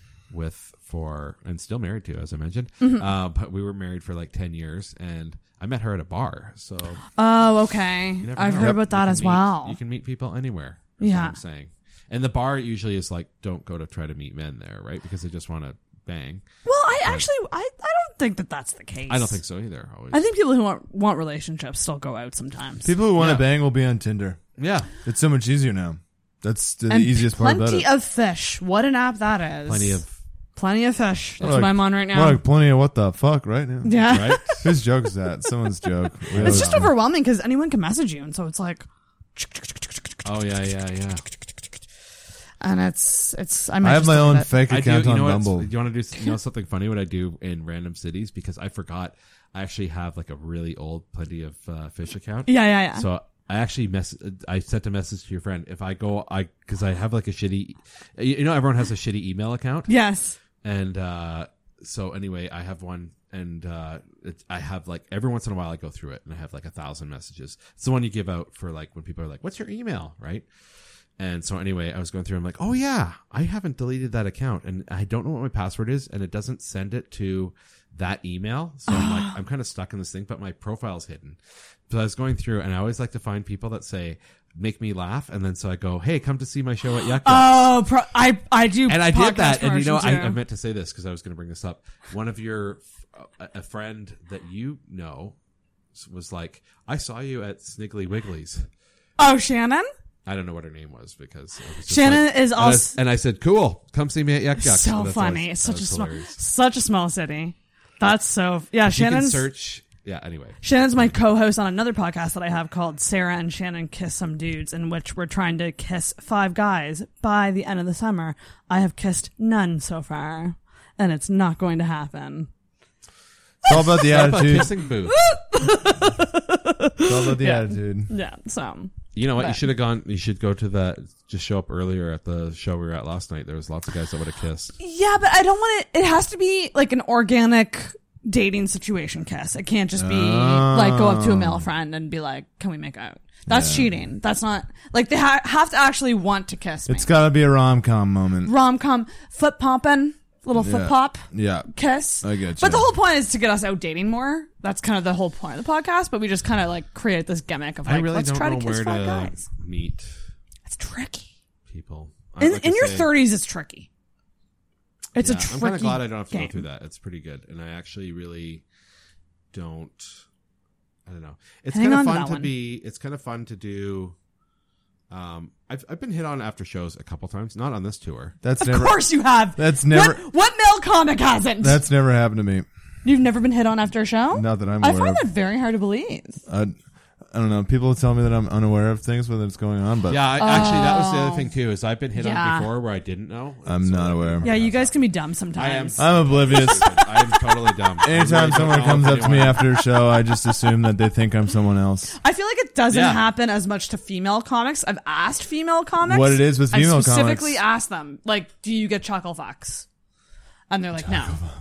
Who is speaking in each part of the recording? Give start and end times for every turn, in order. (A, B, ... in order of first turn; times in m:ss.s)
0:00.3-0:07.0 A
0:02.8-0:03.0 B
0:07.2-0:09.8 B
0:08.2-0:16.4 A
0:11.0-0:11.4 B
0:16.6-0:19.4 B
0:19.1-0:20.2 A
0:20.1-0:22.9 B
0:22.8-0:24.4 C
0:23.2-0:23.5 A
0:24.6-0:24.9 A
0:25.0-0:27.9 C
0:26.9-0:30.0 B
0:29.7-0:30.1 A
0:30.6-0:32.4 B
0:31.4-0:31.7 A
0:31.4-0:36.9 C
0:33.8-0:34.6 B
0:34.1-0:34.7 A
0:36.3-0:36.9 A
0:36.4-0:40.2 B
0:40.2-0:41.2 A
0:42.6-0:44.5 B
0:43.8-0:45.7 C
0:44.7-0:59.9 A
0:52.5-0:53.0 B
0:59.9-1:00.4 B
1:00.6-1:10.4 A
1:11.2-1:21.4 A
1:18.9-1:19.3 B
1:21.9-1:27.8 A
1:27.2-1:30.4 B
1:28.9-1:35.4 A
1:35.9-1:38.6 A
1:39.2-1:39.9 B
1:40.2-1:46.4 A
1:41.9-1:43.0 B
1:44.6-1:49.4 B
1:48.8-1:51.1 A
1:50.6-2:02.5 B
2:03.7-2:04.0 B
2:03.7-2:04.7 C
2:03.7-2:05.2 A
2:05.1-2:09.6 B
2:07.0-2:08.1 C
2:09.1-2:14.7 A
2:14.8-2:27.1 B
2:20.0-2:21.7 C
2:23.5-2:23.9 C
2:26.9-2:28.5 C
2:28.4-2:39.4 B
2:30.5-2:31.7 C
2:32.2-2:32.9 C
2:37.8-2:40.1 A
2:40.6-2:41.3 B
2:41.7-2:43.1 A
2:42.4-2:43.9 B
2:45.1-2:46.6 B
2:45.2-2:48.6 A
2:49.5-2:50.2 A
2:51.0-2:54.1 A
2:51.7-2:52.5 B
2:55.1-2:58.4 A
2:58.4-2:59.0 C
2:58.6-3:01.8 B
2:59.6-3:00.2 C
3:01.6-3:02.6 C
3:03.0-3:06.4 B
3:04.3-3:05.2 C
3:06.5-3:06.7 C
3:07.3-3:10.5 C
3:10.1-3:15.0 A
3:10.4-3:11.5 B
3:12.2-3:12.7 B
3:13.6-3:14.5 C
3:14.4-3:17.3 B
3:15.5-3:19.6 A
3:16.0-3:16.9 C
3:18.0-3:22.1 C
3:22.2-3:29.8 B
3:22.9-3:23.3 A
3:26.0-3:27.6 C
3:30.7-3:31.4 B